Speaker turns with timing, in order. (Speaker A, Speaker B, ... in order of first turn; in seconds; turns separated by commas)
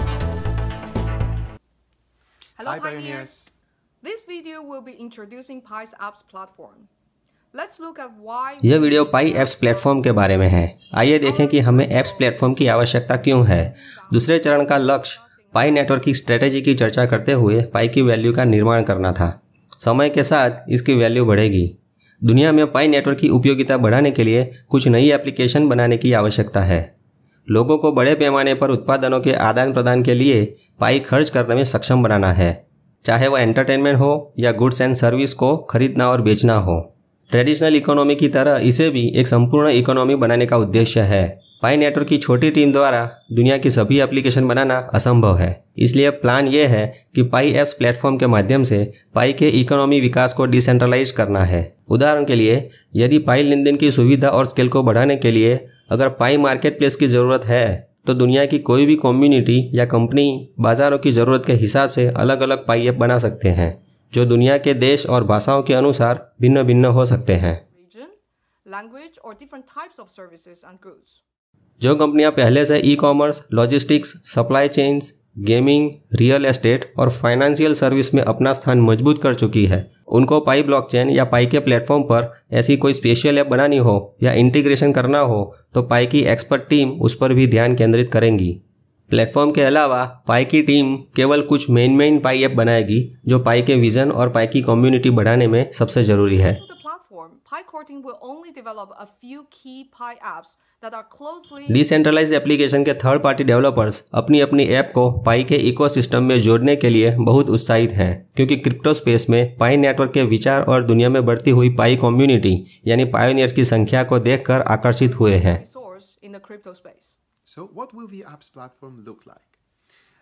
Speaker A: 2.6-3.5, Speaker B: 2.6-3.5, Speaker A: 4.0-6.9, Speaker A: 7.5-10.2, Speaker C: 8.6-26.9, Speaker A: 11.2-16.7, Speaker C: 27.5-67.6, Speaker A: 67.7-71.2, Speaker C: 71.8-88.6, Speaker C: 89.1-96.6, Speaker A: 96.3-101.8, Speaker C: 101.7-115.6, Speaker A: 114.8-117.2, Speaker B: 117.4-119.6